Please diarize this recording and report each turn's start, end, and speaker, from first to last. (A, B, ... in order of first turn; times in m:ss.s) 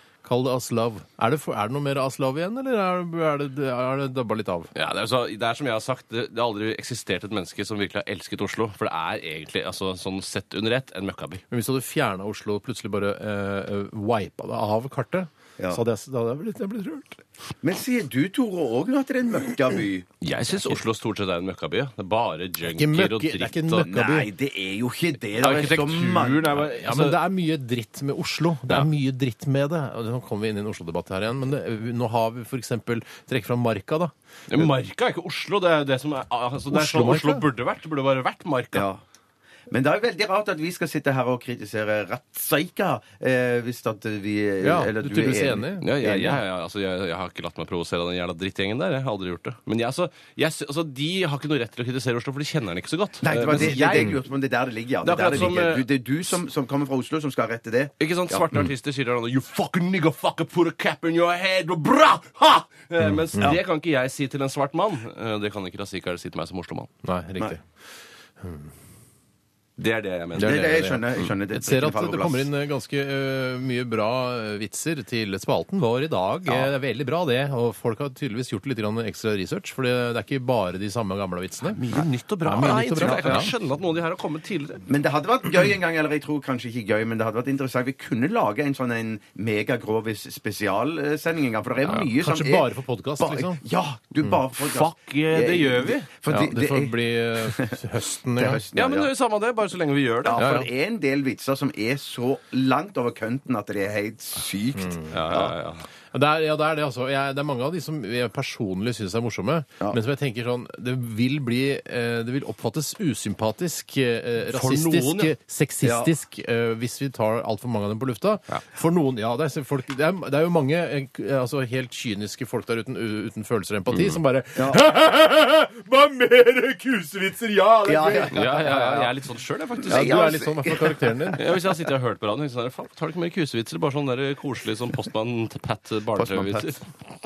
0:00.2-0:04.7 A
0:04.7-0:11.4 B
0:11.5-0:17.2 A
0:17.6-0:20.1 C
0:20.2-0:23.9 B
0:22.7-0:24.3 A
0:23.8-0:26.6 C
0:25.4-0:27.2 B
0:26.7-0:34.7 A
0:34.5-0:38.9 B
0:36.7-0:37.4 A
0:38.7-0:39.0 C
0:39.7-0:46.4 C
0:44.6-0:45.9 A
0:45.8-0:54.2 B
0:53.2-0:58.5 C
0:55.0-0:55.8 B
0:58.0-1:06.9 B
1:03.0-1:03.5 A
1:07.0-1:07.6 A
1:08.4-1:08.7 A
1:09.8-1:10.8 B
1:10.3-1:21.8 A
1:10.4-1:12.5 C
1:21.6-1:24.8 B
1:22.4-1:23.5 A
1:23.0-1:23.5 C
1:24.9-1:32.7 C
1:31.9-1:33.6 A
1:33.2-1:37.8 C
1:34.6-1:36.1 B
1:36.3-1:38.6 A
1:38.3-1:39.1 C
1:38.7-1:40.4 B
1:40.2-1:45.5 C
1:40.3-1:40.7 A
1:44.8-1:45.1 A
1:45.1-1:45.8 B
1:46.1-2:09.0 A
1:54.5-1:55.3 B
1:55.8-1:56.1 C
2:03.9-2:04.2 B
2:04.6-2:04.8 C
2:07.8-2:09.1 C
2:08.3-2:10.4 B
2:09.8-2:11.8 C
2:09.9-2:11.4 A
2:11.4-2:16.8 B
2:16.2-2:16.7 C